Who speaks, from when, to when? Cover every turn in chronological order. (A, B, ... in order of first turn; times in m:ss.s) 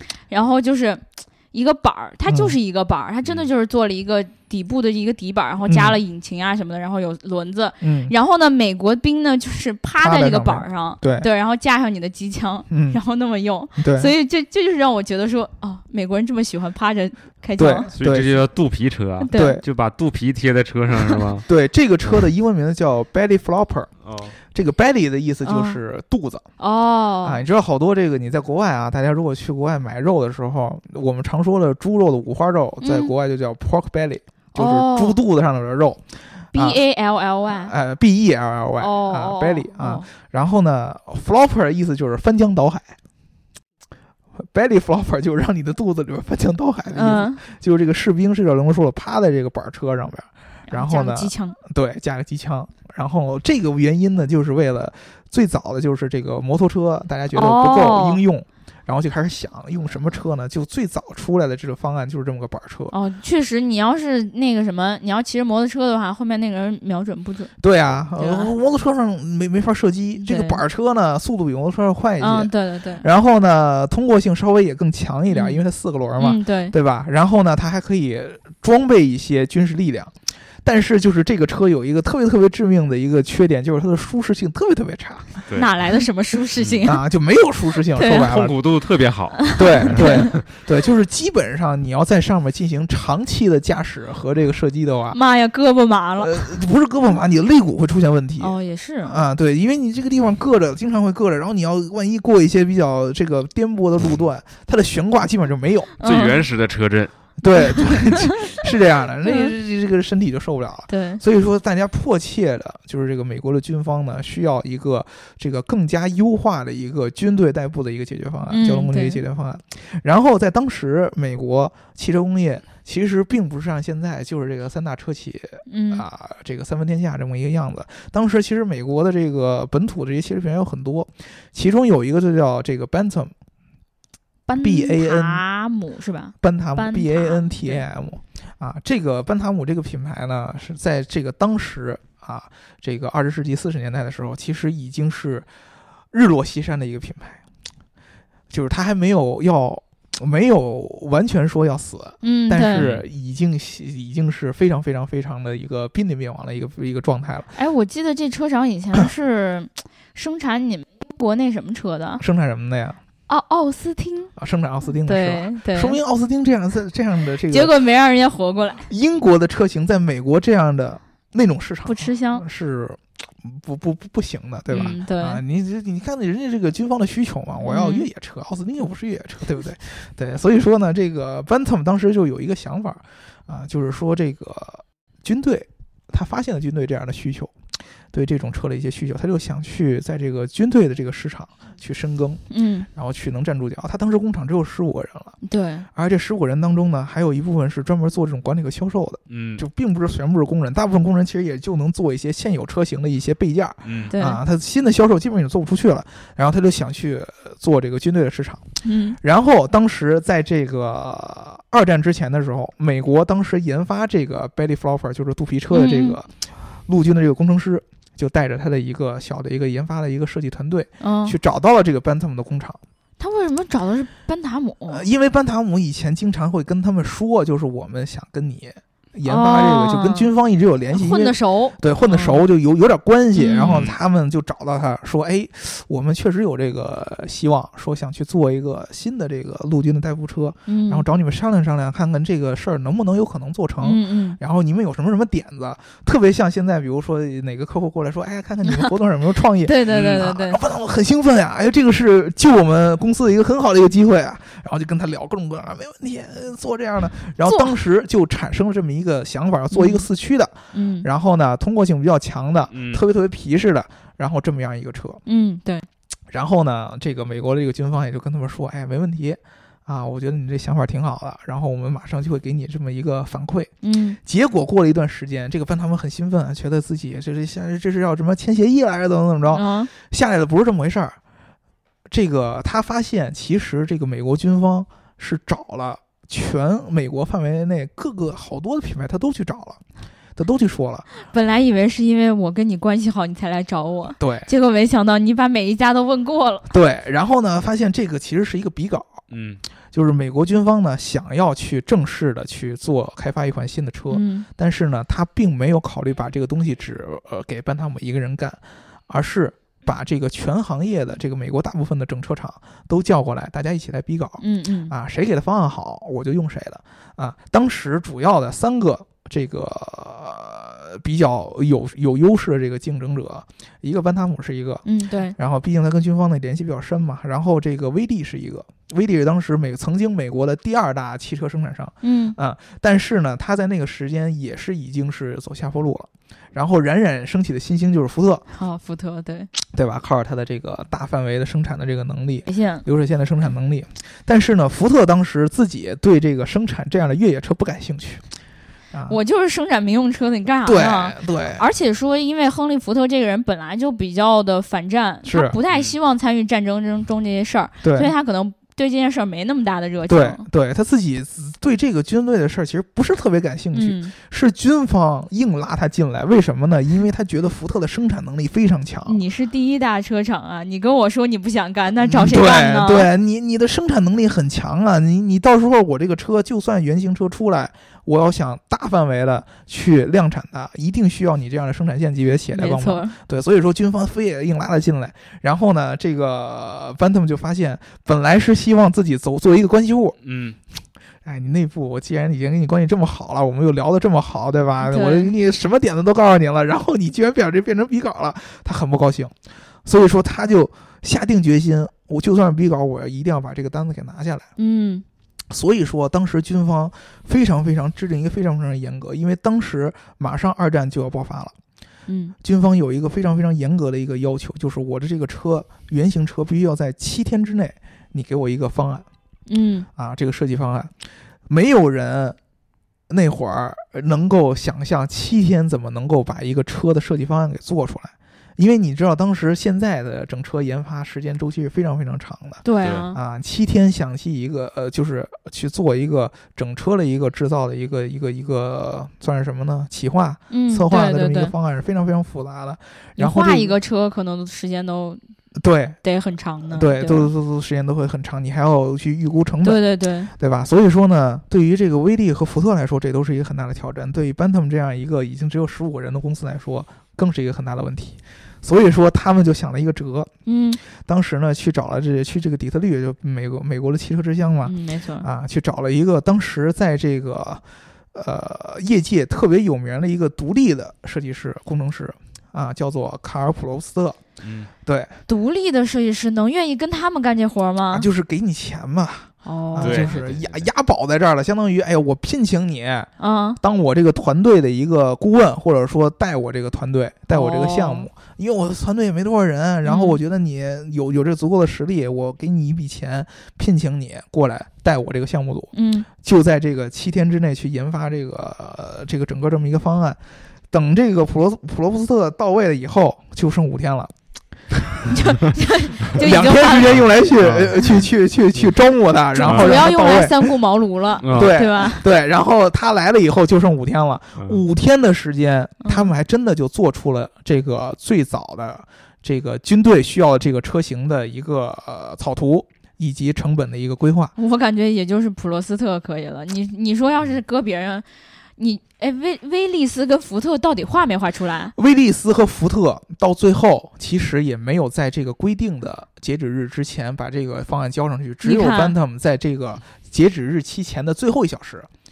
0:00.3-0:17.9 A
0:02.3-0:02.5 B
0:05.6-0:06.0 B
0:07.8-0:08.1 B
0:10.0-0:11.3 B
0:12.7-0:13.0 B
0:13.8-0:14.1 B
0:17.6-0:18.4 B
0:17.9-0:21.5 C
0:19.3-0:19.6 A
0:19.3-0:19.6 B
0:21.5-0:23.9 B
0:24.0-0:24.4 C
0:24.5-0:26.5 B
0:25.4-0:25.8 A
0:26.6-0:27.4 A
0:27.2-0:36.8 B
0:32.8-0:33.1 A
0:34.6-0:35.2 A
0:36.5-0:37.7 A
0:37.5-0:43.0 B
0:38.8-0:40.1 A
0:44.4-1:02.9 B
0:46.9-0:47.4 A
0:50.7-0:51.6 A
0:57.3-0:58.2 A
1:02.9-1:07.5 A
1:07.6-1:25.4 B
1:08.2-1:08.5 A
1:10.2-1:10.6 A
1:12.2-1:13.0 A
1:15.3-1:15.6 A
1:16.2-1:16.7 A
1:25.5-1:27.0 A
1:26.6-1:26.8 C
1:26.8-1:28.6 B
1:27.9-1:28.3 A
1:28.1-1:30.4 C
1:29.4-1:30.2 A
1:29.6-1:35.2 B
1:35.1-1:36.5 A
1:36.2-1:45.9 B
1:38.4-1:39.2 A
1:46.0-1:46.4 A
1:46.0-1:47.1 C
1:47.4-2:13.3 B
1:47.9-1:48.3 A
1:49.2-1:49.5 A
1:50.9-1:51.2 A
1:58.5-1:59.2 A
2:05.7-2:06.0 A
2:14.5-2:17.8 A
2:14.6-2:15.4 B
2:16.4-2:25.5 B
2:26.1-2:27.4 B
2:28.5-2:37.5 B
2:32.2-2:32.8 A
2:32.7-2:33.0 C
2:37.5-2:42.2 A
2:42.2-2:43.0 B
2:43.3-2:44.3 A
2:44.4-2:47.7 B
2:45.0-2:46.0 A
2:47.5-2:48.9 A
2:48.9-3:07.5 B
2:51.8-2:52.4 A
2:54.7-2:55.4 A
2:57.6-2:58.1 A
3:08.1-3:15.4 B
3:12.5-3:12.9 A
3:15.4-3:15.8 A
3:15.9-3:28.6 B
3:19.3-3:19.6 C
3:23.8-3:24.1 C
3:24.1-3:24.4 A
3:28.8-3:29.2 A
3:29.2-3:36.3 B
3:35.7-3:36.2 A
3:36.8-3:42.8 B
3:41.0-3:41.4 A
3:43.2-3:45.0 A
3:44.9-4:25.2 B
3:49.2-3:50.3 A
3:50.9-3:52.4 A
3:53.4-3:53.8 A
3:53.6-3:54.0 C
4:00.7-4:01.0 A
4:03.8-4:04.4 A
4:08.6-4:08.9 A
4:09.6-4:10.6 A
4:17.4-4:17.7 A
4:19.7-4:20.0 A
4:20.7-4:21.0 A
4:22.7-4:23.0 C
4:25.2-4:25.8 A
4:26.3-4:33.7 B
4:33.8-4:34.2 A
4:34.2-4:41.2 B
4:39.5-4:39.9 A
4:42.1-4:49.8 B
4:50.4-4:51.1 B
4:51.2-4:56.7 A
4:54.2-4:54.5 B
4:56.7-4:59.2 B
4:59.3-4:59.6 C
4:59.9-5:38.4 B
5:04.1-5:04.5 A
5:14.4-5:14.9 A
5:24.8-5:25.3 A
5:32.0-5:32.4 A
5:38.5-5:39.5 A
5:39.6-5:48.2 B
5:42.4-5:42.8 A
5:48.9-5:49.2 B
5:49.1-6:00.4 A
5:50.6-5:51.6 B
5:55.2-5:55.6 B
5:57.8-5:58.1 B
6:00.1-6:09.2 B
6:03.7-6:04.1 A
6:09.0-6:13.1 A
6:12.0-6:30.2 B
6:22.5-6:23.2 A
6:30.2-6:30.6 C
6:31.2-6:39.3 B
6:34.8-6:35.3 A
6:39.8-6:44.5 B
6:44.6-6:45.0 A
6:45.5-6:51.5 B
6:52.1-6:52.3 A
6:52.4-6:59.1 B
6:59.5-6:59.9 A
7:00.0-7:02.4 B
7:03.1-7:23.8 B
7:12.6-7:13.2 A
7:20.5-7:21.5 A
7:23.2-7:25.2 A
7:25.5-7:26.0 B
7:26.0-7:27.3 A
7:26.7-7:40.3 B
7:29.6-7:30.3 A
7:40.4-7:40.8 A
7:40.8-7:54.2 B
7:44.6-7:45.3 A
7:54.4-7:54.7 C
7:54.8-7:55.1 B
7:55.3-7:58.0 A
7:57.9-8:20.2 B
7:59.4-8:00.2 A
7:59.8-8:00.7 C
8:03.2-8:03.6 A
8:07.3-8:08.1 A
8:09.8-8:10.2 A
8:15.7-8:16.1 A
8:20.7-8:24.1 B
8:25.1-8:27.3 A
8:26.2-8:30.6 B
8:26.8-8:28.0 C
8:29.3-8:32.0 A
8:29.5-8:29.8 C
8:31.2-8:31.6 C
8:31.3-8:44.3 B
8:34.4-8:34.6 C
8:35.8-8:36.1 A
8:44.4-8:48.0 A
8:48.6-8:51.7 A
8:51.7-9:01.9 B
8:58.4-8:58.9 A